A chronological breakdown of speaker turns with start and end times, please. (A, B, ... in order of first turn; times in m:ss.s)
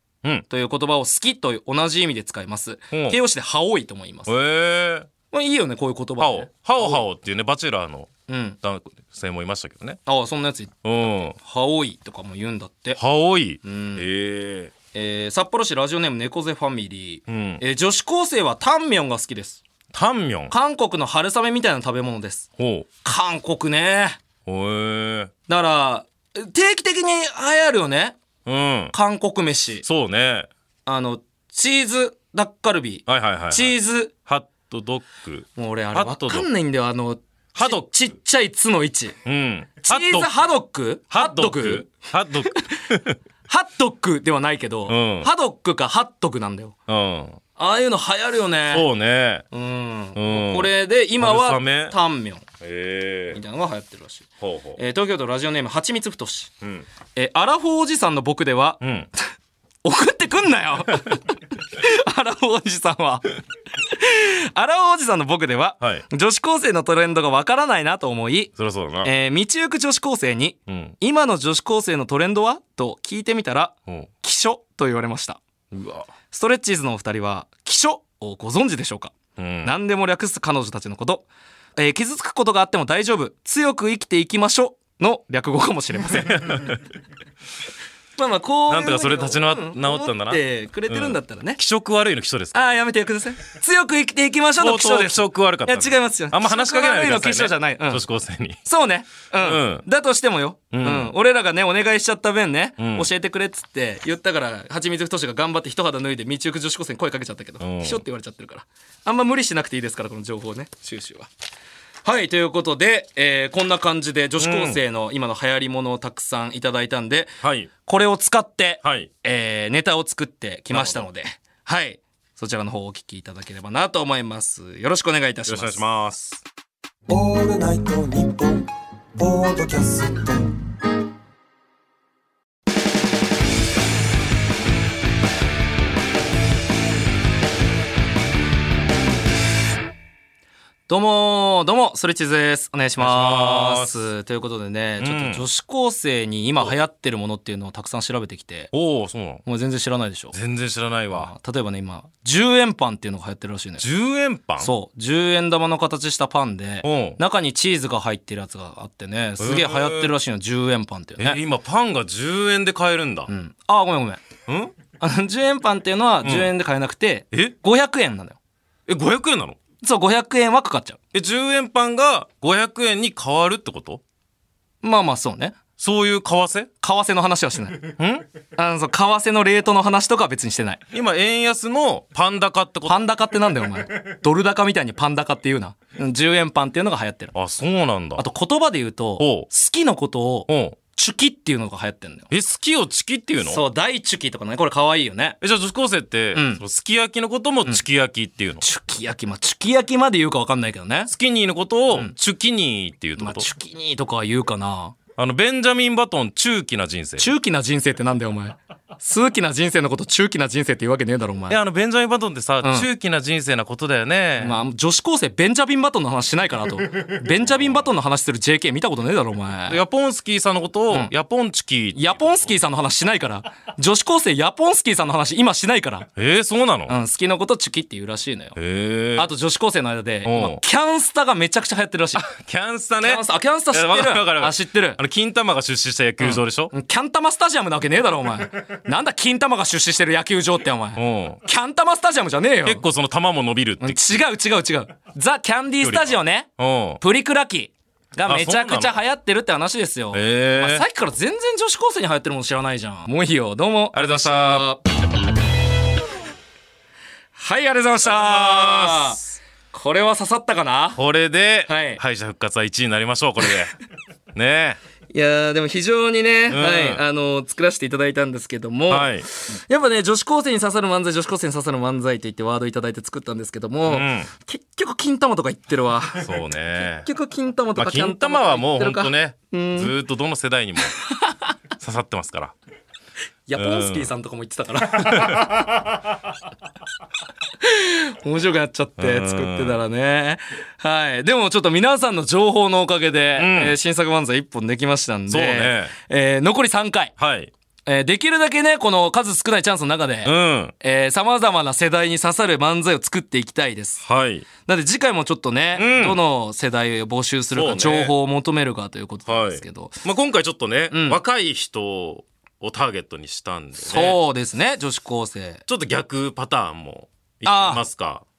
0:00.5-0:04.3 A
0:02.9-0:03.2 B
0:04.3-0:05.1 B
0:05.3-0:07.0 A
0:06.2-0:10.0 B
0:08.3-0:08.6 A
0:10.0-0:10.7 A
0:10.8-0:11.4 B
0:11.3-0:13.0 A
0:13.0-0:14.7 B
0:13.6-0:14.0 A
0:14.9-0:19.6 A
0:17.3-0:17.6 B
0:19.9-0:20.5 B
0:20.5-0:22.5 A
0:22.6-0:22.9 B
0:23.0-0:24.2 A
0:24.4-0:25.3 B
0:25.5-0:28.2 A
0:28.4-0:28.9 B
0:28.9-0:29.8 A
0:29.8-0:30.5 B
0:30.8-0:34.1 A
0:33.0-0:36.5 B
0:35.6-0:39.2 A
0:37.5-0:37.8 B
0:39.2-0:40.4 B
0:39.8-0:41.9 A
0:41.1-0:43.2 B
0:43.5-0:46.7 A
0:44.9-0:45.3 B
0:46.9-0:47.4 B
0:47.6-0:48.9 A
0:48.7-0:49.4 B
0:49.5-0:52.4 A
0:50.1-0:52.0 B
0:52.6-0:53.4 B
0:53.3-0:56.5 A
0:54.4-0:54.8 B
0:56.6-0:56.8 B
0:57.1-0:58.8 A
0:58.8-0:59.1 B
0:59.8-1:03.3 A
1:03.8-1:15.4 A
1:05.8-1:06.0 B
1:08.6-1:09.1 B
1:10.7-1:10.9 B
1:15.7-1:16.1 B
1:16.3-1:26.7 A
1:19.4-1:19.7 B
1:26.3-1:26.8 B
1:28.2-1:31.6 A
1:28.7-1:32.6 B
1:32.5-1:38.0 A
1:34.6-1:38.6 B
1:38.6-1:51.3 A
1:39.4-1:39.8 B
1:40.7-1:41.1 B
1:42.8-1:43.1 B
1:47.6-1:48.0 B
1:52.0-2:05.8 A
1:54.4-1:54.8 B
1:57.4-1:57.7 B
1:58.8-1:59.1 B
2:00.7-2:01.0 B
2:05.4-2:06.4 B
2:07.2-2:08.4 C
2:09.3-2:10.2 C
2:20.9-2:28.7 A
2:23.0-2:24.0 B
2:25.0-2:25.4 B
2:28.7-2:29.4 B
2:29.4-2:30.3 A
2:30.3-2:31.3 B
2:31.1-2:33.8 A
2:33.8-2:34.7 B
2:34.6-2:41.4 A
2:36.8-2:37.2 B
2:39.4-2:40.1 B
2:41.2-2:43.3 B
2:43.3-2:44.2 A
2:44.5-2:44.7 B
2:45.0-2:48.4 A
2:46.2-2:46.5 B
2:48.9-2:49.6 B
2:49.8-2:51.0 A
2:51.1-2:54.0 B
2:54.8-2:55.5 A
2:55.8-2:56.7 B
2:56.8-2:57.9 A
2:58.0-2:58.2 B
2:58.6-3:00.8 A
3:00.9-3:03.0 B
3:02.8-3:07.3 A
3:07.3-3:08.2 B
3:08.2-3:12.3 A
3:09.2-3:09.5 B
3:10.5-3:10.8 B
3:12.3-3:13.6 B
3:13.4-3:15.4 A
3:15.4-3:18.6 B
3:16.3-3:16.6 A
3:18.6-3:21.1 A
3:21.1-3:23.5 B
3:23.2-3:25.0 A
3:25.2-3:27.3 B
3:27.2-3:31.6 A
3:31.5-3:34.6 B
3:32.6-3:32.9 A
3:34.4-3:39.8 A
3:39.7-3:42.5 B
3:41.9-3:46.1 A
3:46.2-3:47.0 B
3:46.9-3:48.6 A
3:48.6-3:49.3 B
3:49.2-3:52.3 A
3:50.2-3:50.6 B
3:52.1-3:56.7 B
3:53.0-3:55.0 A
3:56.2-4:02.8 A
4:01.0-4:01.4 B
4:02.6-4:04.2 B
4:03.8-4:06.5 A
4:05.8-4:07.0 B
4:07.0-4:14.8 A
4:08.2-4:09.0 B
4:10.1-4:10.8 B
4:13.9-4:14.7 B
4:17.4-4:19.2 A
4:18.0-4:19.3 B
4:19.7-4:21.0 A
4:20.9-4:23.7 B
4:21.7-4:22.0 A
4:24.3-4:24.8 B
4:25.1-4:36.3 A
4:26.5-4:27.0 B
4:28.9-4:29.3 B
4:33.9-4:34.3 B
4:36.2-4:37.1 B
4:37.0-4:39.9 A
4:37.8-4:41.0 B
4:41.8-4:42.5 B
4:43.5-4:45.7 A
4:43.6-4:44.1 B
4:45.0-4:45.5 B
4:47.6-4:57.1 A
4:49.0-4:49.8 B
4:53.4-4:53.7 B
4:55.3-4:55.9 B
4:57.2-4:57.5 B
4:57.8-5:04.0 A
5:00.2-5:00.7 B
5:04.0-5:04.5 B
5:04.6-5:10.0 A
5:05.7-5:06.2 B
5:07.5-5:08.1 B
5:09.3-5:14.2 B
5:10.9-5:11.2 A
5:13.8-5:15.6 A
5:15.7-5:18.2 B
5:17.4-5:17.8 A